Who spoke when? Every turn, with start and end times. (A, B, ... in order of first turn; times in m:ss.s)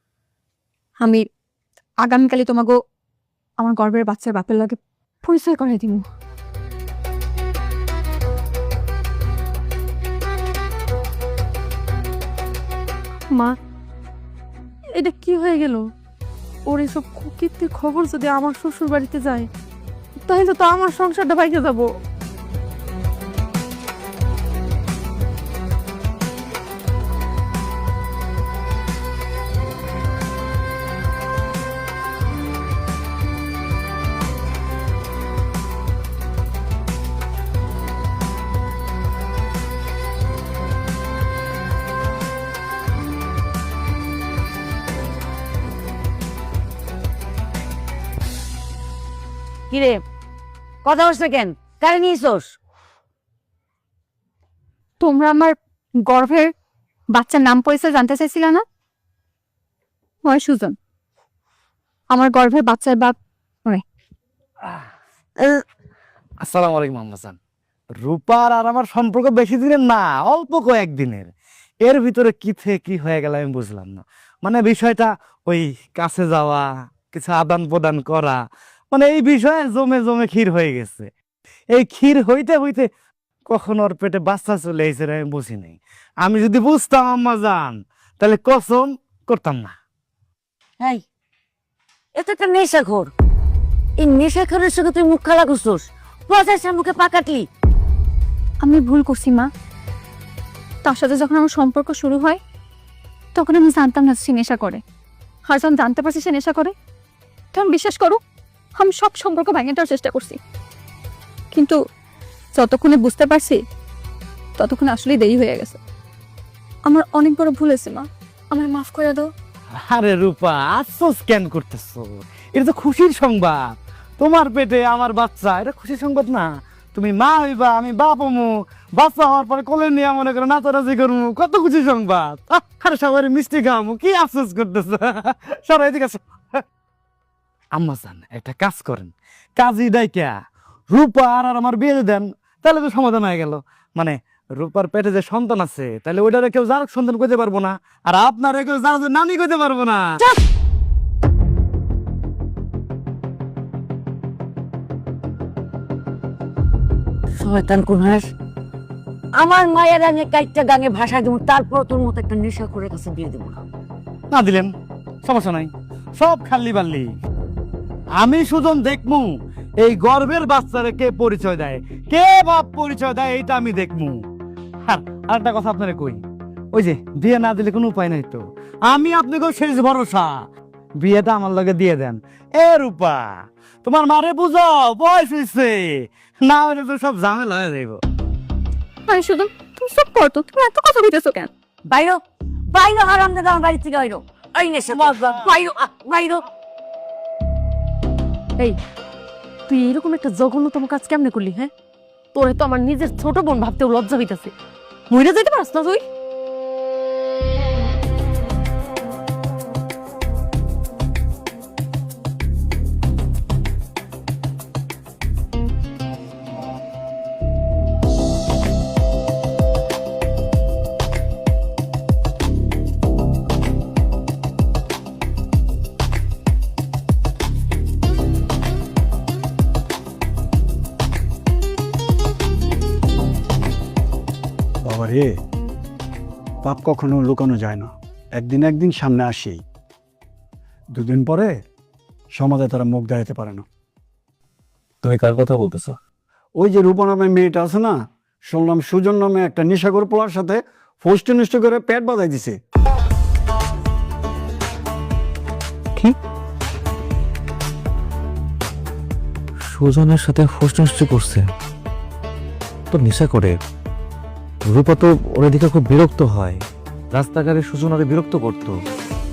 0:01.0-0:01.2 A
0:02.0-0:02.7 A
0:03.6-0:06.0 A
0:13.3-0:13.6 B
0:14.9-0:15.8 B
0:16.6-0:19.5 B
0:20.2-0:21.9 B
0:49.7-0:50.0 C
0:50.8-0:52.5 C
0:55.0-0:56.5 A
0:57.1-0:58.6 A
1:00.2-1:00.7 A
1:02.1-1:03.8 A
1:06.4-1:07.4 D
1:07.9-1:11.3 D
1:11.8-1:18.4 D
1:18.9-1:21.1 D
1:21.7-1:22.9 D
1:23.5-1:29.7 D
1:32.2-1:33.1 C
1:34.0-1:37.4 C
1:38.6-1:39.5 A
1:40.8-1:42.4 A
1:43.3-1:44.8 A
1:45.5-1:46.7 A
1:47.5-1:48.2 A
1:48.8-1:50.4 A
1:51.5-1:51.8 A
1:52.5-1:53.6 A
1:54.6-1:55.8 A
1:56.8-1:59.3 A
1:59.8-2:03.6 D
2:04.2-2:16.6 D
2:17.7-2:20.3 D
2:20.9-2:30.2 D
2:37.4-2:38.3 C
2:39.4-2:43.6 C
2:44.3-2:44.7 D
2:45.2-2:47.1 D
2:48.2-2:54.2 D
2:54.8-2:56.2 D
2:56.7-3:00.4 D
3:01.0-3:08.0 D
3:09.1-3:11.5 A
3:11.9-3:12.2 C
3:12.7-3:16.4 C
3:14.9-3:15.3 D
3:15.2-3:15.6 B
3:19.7-3:21.7 B
3:22.3-3:24.5 B
3:25.1-3:26.0 B
3:54.8-3:55.3 E
3:56.6-3:59.6 E
4:00.9-4:01.5 E
4:02.3-4:03.6 E
4:05.3-4:05.8 F
4:06.6-4:12.6 E
4:19.8-4:20.4 F
4:27.2-4:27.7 F
4:28.3-4:28.7 F